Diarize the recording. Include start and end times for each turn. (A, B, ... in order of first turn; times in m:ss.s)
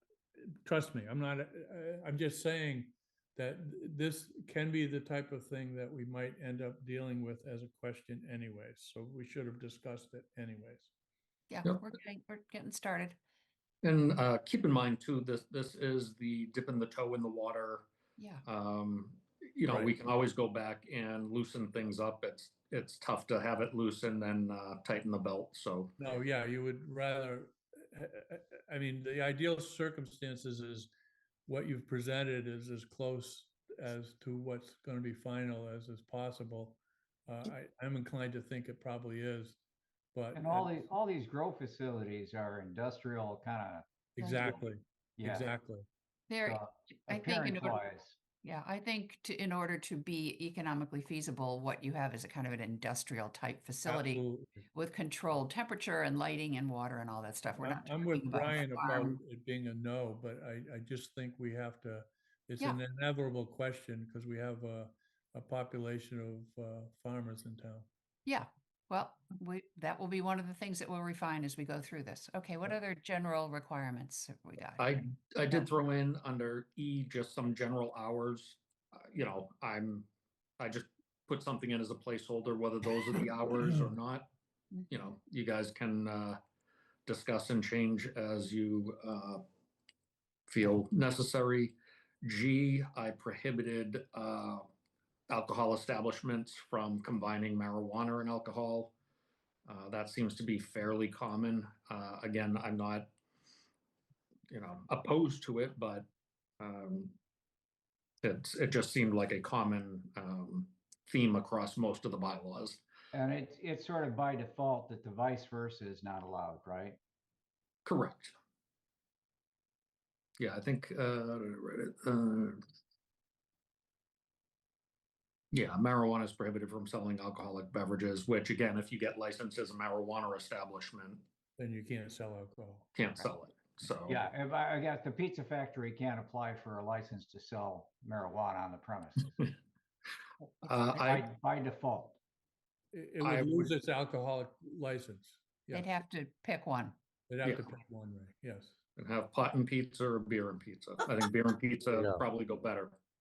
0:00.6-0:10.9 A
0:11.5-0:13.2 B
0:13.8-0:17.9 C
0:18.2-0:18.4 B
0:18.4-0:25.9 C
0:19.7-0:19.9 A
0:26.0-0:30.9 A
0:31.4-0:39.6 A
0:40.1-0:40.9 A
0:40.3-0:43.8 D
0:44.2-0:45.8 A
0:44.2-0:44.5 B
0:45.2-0:45.5 D
0:46.3-0:47.8 B
0:46.4-0:48.2 D
0:48.4-0:59.2 B
0:53.8-0:54.6 A
0:57.6-1:07.9 A
1:02.6-1:02.8 B
1:08.2-1:14.9 B
1:14.8-1:20.1 C
1:20.6-1:24.3 C
1:24.9-1:26.4 C
1:27.1-1:29.4 C
1:30.5-1:34.6 C
1:35.3-1:38.9 C
1:39.7-1:43.1 C
1:44.5-1:46.1 C
1:46.6-1:47.2 C
1:48.2-1:52.8 C
1:53.1-1:57.0 D
1:57.8-1:58.3 C
2:00.4-2:02.6 C
2:05.5-2:11.2 C
2:11.6-2:12.9 A
2:12.9-2:14.2 C
2:14.1-2:19.5 D
2:20.6-2:21.2 C
2:20.6-2:22.2 D
2:22.9-2:25.9 A
2:23.2-2:23.7 C
2:25.7-2:27.0 B
2:27.3-2:28.7 A
2:27.4-2:27.7 C
2:29.0-2:33.0 C